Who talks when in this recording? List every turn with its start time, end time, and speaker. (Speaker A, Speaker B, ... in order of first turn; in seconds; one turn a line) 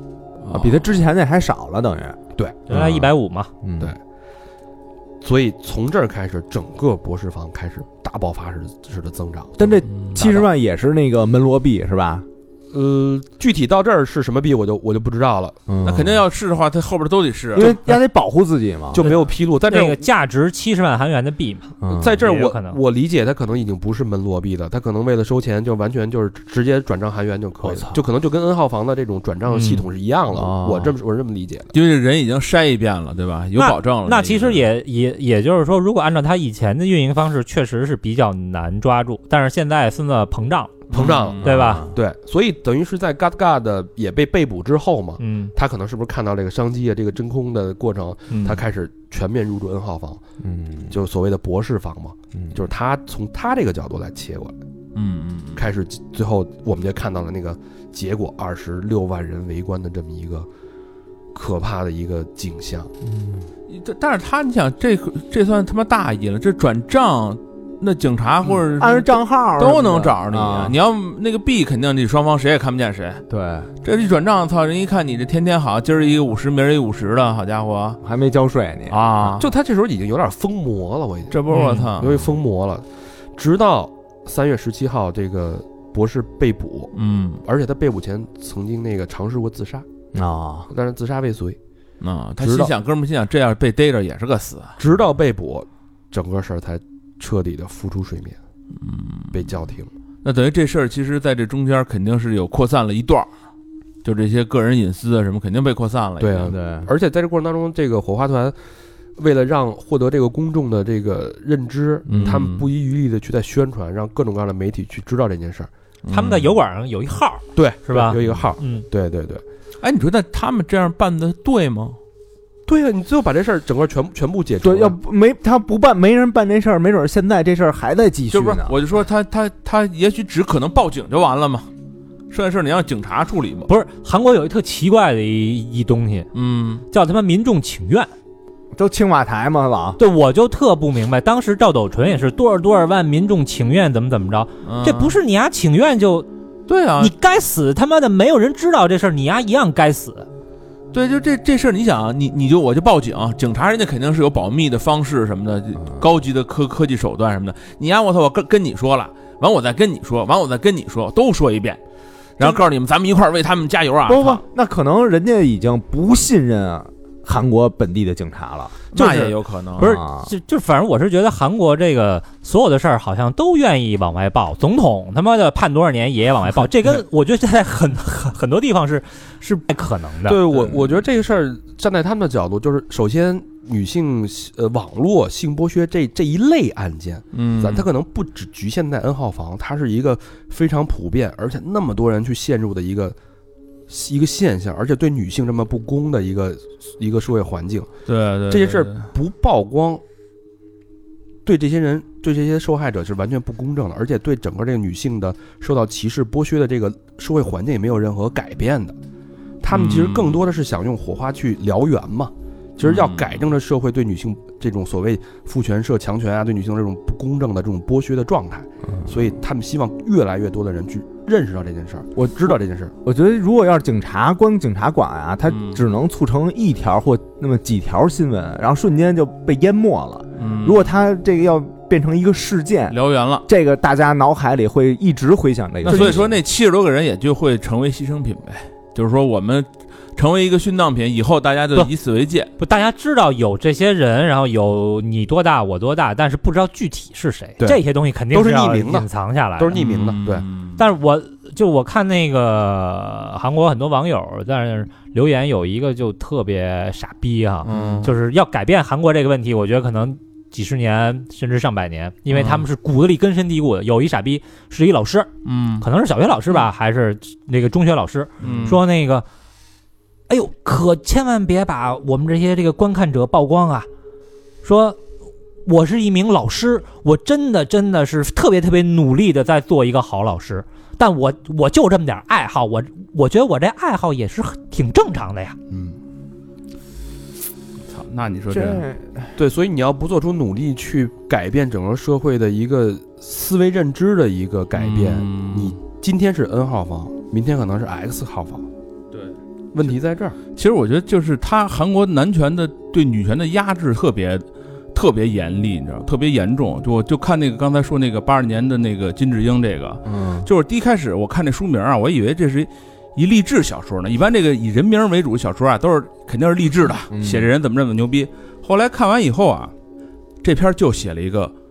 Speaker A: 0.4-0.8
Speaker B: 0.5-2.2
Speaker C: 2.4-2.8
Speaker D: 2.7-3.5
Speaker B: 2.7-3.1
Speaker B: 3.6-3.9
Speaker C: 5.2-10.4
Speaker B: 9.6-12.2
Speaker A: 9.9-10.2
Speaker C: 12.7-15.6
Speaker B: 15.7-16.2
Speaker A: 15.8-17.7
Speaker B: 17.5-19.0
Speaker C: 18.9-20.0
Speaker D: 19.0-22.8
Speaker B: 21.8-22.2
Speaker C: 21.9-31.7
Speaker B: 27.6-28.0
Speaker A: 29.5-29.8
Speaker B: 30.3-30.9
Speaker A: 31.7-34.6
Speaker D: 33.5-40.8
Speaker A: 40.9-41.5
Speaker C: 40.9-50.2
Speaker D: 41.4-41.8
Speaker B: 41.4-41.9
Speaker D: 45.2-45.5
Speaker D: 48.3-48.6
Speaker B: 50.4-51.0
Speaker C: 50.9-54.5
Speaker B: 52.3-52.6
Speaker A: 54.9-55.6
Speaker C: 55.5-60.5
Speaker C: 61.3-62.9
Speaker B: 63.0-63.5
Speaker A: 63.7-73.2
Speaker B: 68.7-70.8
Speaker B: 73.3-73.7
Speaker A: 73.8-78.0
Speaker B: 78.0-79.5
Speaker A: 78.9-79.4
Speaker C: 79.4-89.8
Speaker A: 81.3-82.2
Speaker A: 86.9-87.4
Speaker B: 90.1-90.7
Speaker C: 90.7-91.6
Speaker A: 92.0-94.8
Speaker C: 92.4-92.7
Speaker C: 94.8-98.4
Speaker A: 98.8-99.4
Speaker C: 99.3-99.9
Speaker A: 100.2-103.3
Speaker A: 104.0-106.5
Speaker C: 106.2-108.5
Speaker B: 106.5-106.9
Speaker C: 109.2-115.7
Speaker B: 112.1-112.5
Speaker A: 112.1-112.6
Speaker A: 116.1-116.5
Speaker D: 116.1-118.8
Speaker C: 117.5-119.4
Speaker A: 119.8-122.0
Speaker C: 122.7-125.0
Speaker B: 124.6-128.8
Speaker A: 128.3-131.7
Speaker A: 132.3-133.7
Speaker D: 133.7-136.3
Speaker A: 136.3-136.8
Speaker D: 136.9-138.1
Speaker B: 138.7-140.0
Speaker D: 140.0-146.3
Speaker A: 144.6-145.2
Speaker A: 146.7-147.1
Speaker D: 147.0-150.3
Speaker A: 150.9-161.8
Speaker A: 162.4-164.4
Speaker B: 164.1-168.8
Speaker A: 168.9-169.9
Speaker B: 169.8-170.3
Speaker D: 169.8-180.4
Speaker C: 180.3-193.2
Speaker A: 187.3-187.8
Speaker C: 193.9-197.9
Speaker A: 198.1-199.1
Speaker C: 198.5-200.0
Speaker C: 201.4-208.9
Speaker C: 209.6-222.9
Speaker A: 209.7-210.3
Speaker A: 212.8-213.3
Speaker B: 218.8-219.3
Speaker B: 222.2-236.4
Speaker A: 225.5-225.8
Speaker A: 230.4-230.8
Speaker A: 232.9-233.4
Speaker A: 235.8-242.5
Speaker D: 242.6-249.8
Speaker C: 247.6-249.1
Speaker C: 249.6-250.4
Speaker A: 249.7-250.8
Speaker D: 250.8-269.2
Speaker A: 257.6-258.1
Speaker B: 257.7-258.1
Speaker A: 262.3-262.6
Speaker A: 265.4-265.9
Speaker A: 268.4-268.8
Speaker D: 270.3-273.9
Speaker D: 274.6-275.0
Speaker D: 275.6-285.6
Speaker C: 285.7-286.0
Speaker A: 287.9-288.9
Speaker B: 288.5-289.3
Speaker C: 289.4-298.6
Speaker A: 294.7-295.8
Speaker C: 299.7-300.4
Speaker A: 300.5-319.7
Speaker B: 310.1-310.5
Speaker B: 317.1-317.5
Speaker A: 320.4-321.5